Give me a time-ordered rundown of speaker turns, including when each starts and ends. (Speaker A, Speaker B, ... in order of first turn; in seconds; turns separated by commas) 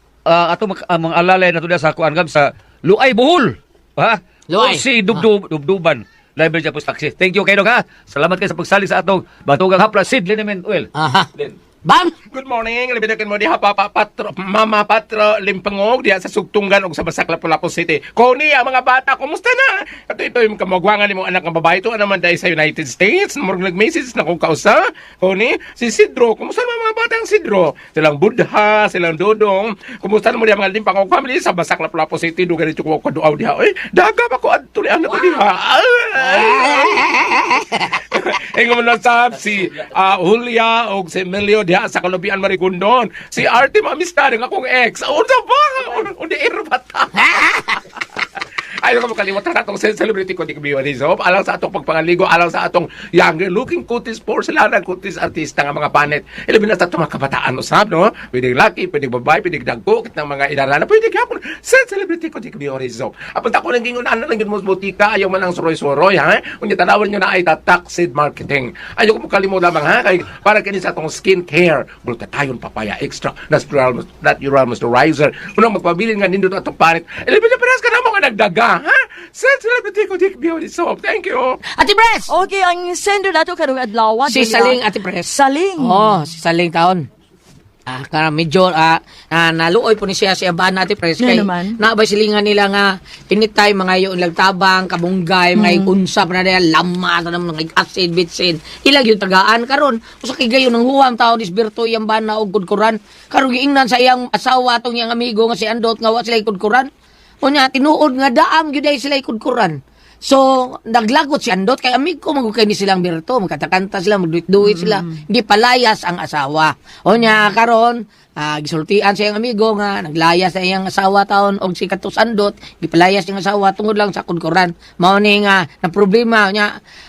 Speaker A: 0.3-11.6, Speaker B: 4.5-5.2, Speaker B: 10.9-11.3, Speaker B: 11.9-12.1, Speaker C: 12.3-37.1, Speaker B: 36.3-37.8, Speaker C: 38.1-47.6, Speaker B: 47.3-47.8, Speaker C: 48.8-81.6, Speaker B: 81.8-82.3, Speaker D: 82.3-86.1, Speaker B: 84.3-87.0, Speaker B: 87.9-106.9, Speaker D: 91.2-91.8, Speaker D: 95.6-95.9, Speaker B: 107.4-126.7, Speaker D: 114.6-115.2